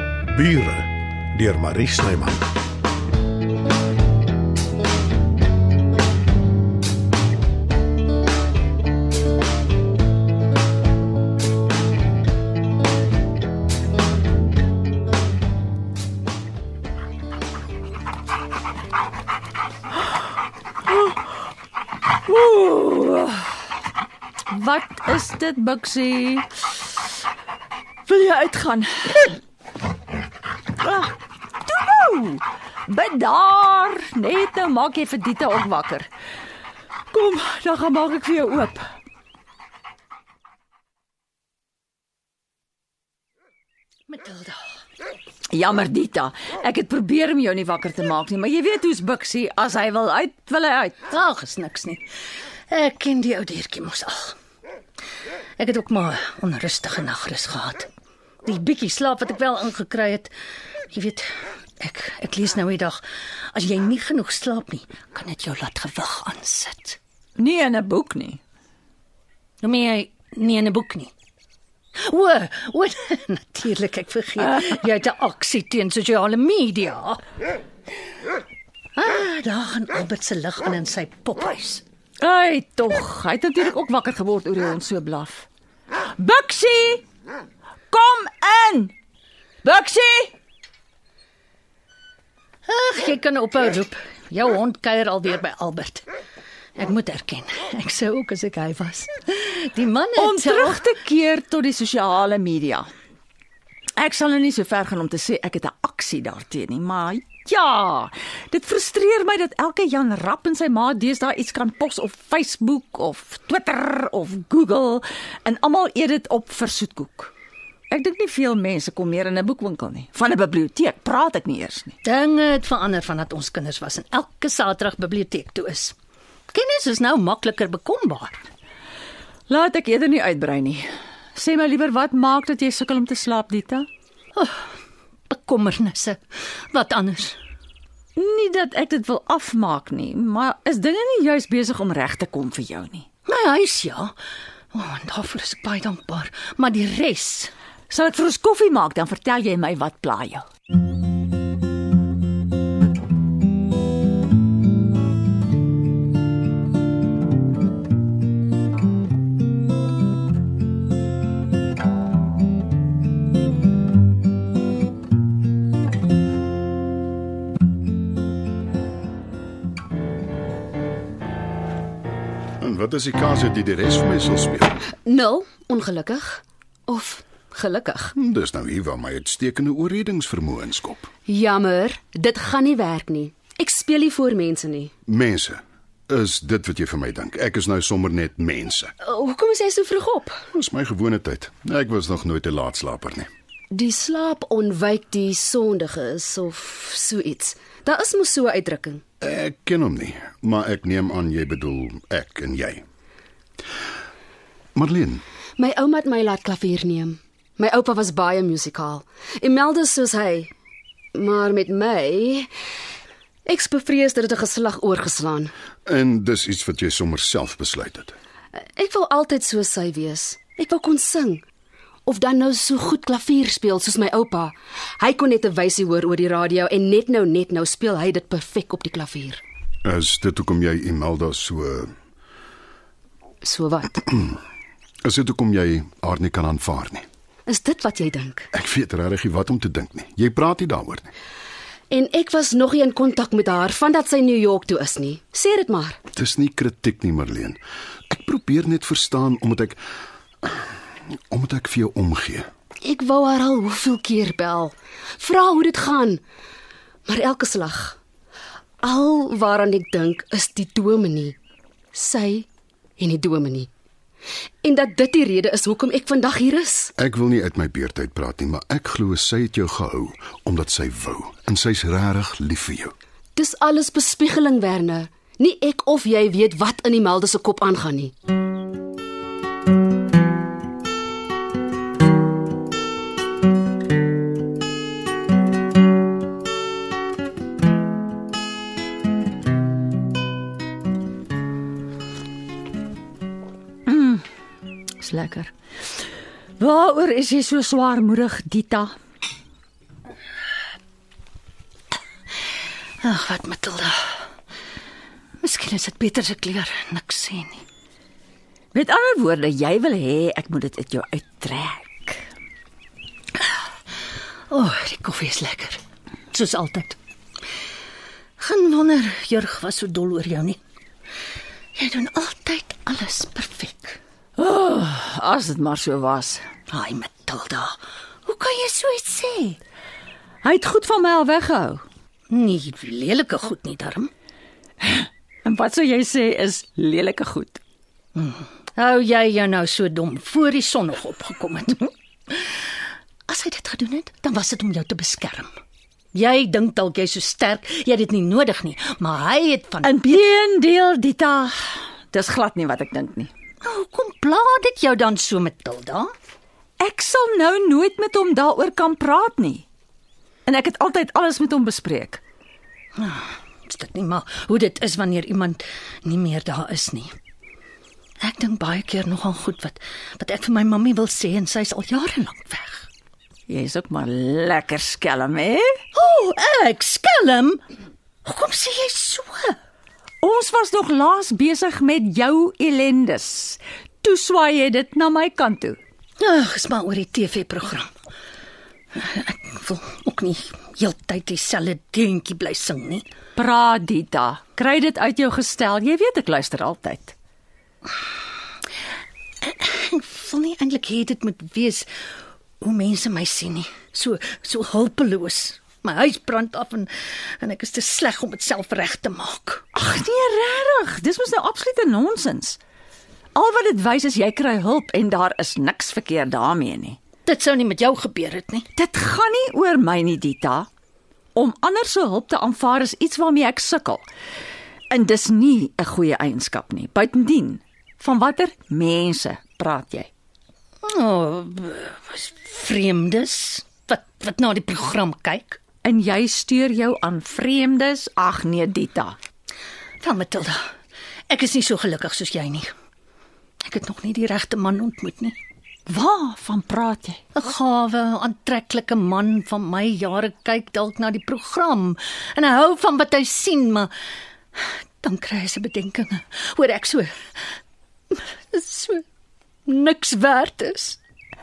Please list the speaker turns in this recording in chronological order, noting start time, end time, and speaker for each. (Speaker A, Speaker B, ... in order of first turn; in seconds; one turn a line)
Speaker A: 0.3-2.4
Speaker B: 20.9-21.2
Speaker B: 22.3-23.6
Speaker B: 24.5-26.7
Speaker B: 28.1-29.4
Speaker B: 30.8-31.1
Speaker B: 31.7-36.1
Speaker B: 37.1-38.8
Speaker C: 44.1-44.6
Speaker B: 45.5-51.0
Speaker C: 51.1-52.1
Speaker C: 52.7-54.4
Speaker C: 55.6-57.9
Speaker C: 58.5-60.3
Speaker C: 60.9-67.0
Speaker B: 67.4-68.4
Speaker C: 69.6-71.1
Speaker C: 72.0-77.2
Speaker C: 79.0-81.8
Speaker B: 82.2-85.5
Speaker B: 86.2-87.0
Speaker B: 87.9-88.9
Speaker B: 89.6-90.3
Speaker C: 92.7-96.1
Speaker C: 96.8-100.9
Speaker B: 100.2-102.9
Speaker B: 104.0-117.3
Speaker B: 117.9-122.0
Speaker C: 122.0-126.0
Speaker C: 126.5-128.5
Speaker B: 129.5-133.9
Speaker C: 134.3-134.8
Speaker C: 135.3-137.4
Speaker B: 138.2-143.1
Speaker C: 143.3-144.1
Speaker C: 144.7-147.5
Speaker B: 147.9-150.5
Speaker D: 172.6-174.8
Speaker E: 175.0-178.1
Speaker D: 178.2-181.1
Speaker E: 181.3-184.9
Speaker D: 185.1-188.9
Speaker E: 189.0-190.4
Speaker D: 190.5-193.3
Speaker E: 193.7-199.0
Speaker D: 199.2-202.8
Speaker D: 204.8-205.2
Speaker E: 205.6-210.5
Speaker E: 211.2-212.5
Speaker E: 213.4-215.5
Speaker D: 215.9-218.2
Speaker E: 218.6-221.4
Speaker E: 222.1-229.4
Speaker D: 229.8-231.9
Speaker E: 233.4-234.1
Speaker D: 235.0-237.1
Speaker E: 237.5-238.5
Speaker D: 238.5-241.1
Speaker E: 241.9-246.0
Speaker D: 246.1-247.6
Speaker D: 248.1-249.8
Speaker D: 250.4-250.7
Speaker D: 251.3-252.5
Speaker E: 252.8-256.2
Speaker E: 257.1-258.0
Speaker E: 258.8-261.4
Speaker E: 261.9-262.5
Speaker E: 263.0-263.7
Speaker E: 264.6-266.9
Speaker D: 267.0-272.9
Speaker E: 273.4-278.1
Speaker B: 293.9-294.2
Speaker B: 295.0-295.5
Speaker B: 296.6-298.9
Speaker C: 303.0-304.3
Speaker C: 305.4-307.6
Speaker B: 308.7-312.2
Speaker C: 314.5-317.0
Speaker C: 318.4-320.6
Speaker C: 321.8-324.0
Speaker B: 324.4-326.4
Speaker C: 326.7-329.6
Speaker B: 330.4-331.8
Speaker C: 332.3-334.1
Speaker B: 334.8-337.6
Speaker C: 338.1-345.5
Speaker C: 346.1-350.2
Speaker B: 349.8-353.3
Speaker C: 353.6-356.1
Speaker B: 356.8-359.6
Speaker B: 360.5-362.2
Speaker C: 362.9-367.1
Speaker C: 368.2-372.9
Speaker B: 373.5-375.8
Speaker C: 375.9-377.6
Speaker C: 378.2-379.6
Speaker B: 380.2-385.8
Speaker C: 386.2-387.9
Speaker C: 388.9-393.1
Speaker B: 393.4-397.1
Speaker C: 399.4-401.9
Speaker C: 402.6-409.6
Speaker B: 409.7-412.6
Speaker B: 413.4-417.0
Speaker C: 417.3-418.7
Speaker B: 418.8-420.7
Speaker B: 421.4-424.1
Speaker B: 424.9-430.1
Speaker C: 430.8-435.6
Speaker B: 435.8-439.2
Speaker C: 440.0-440.7
Speaker C: 441.3-442.7
Speaker C: 443.6-445.4
Speaker B: 445.9-447.2
Speaker C: 447.4-453.9
Speaker C: 454.6-457.1
Speaker C: 458.1-459.1
Speaker C: 459.7-461.0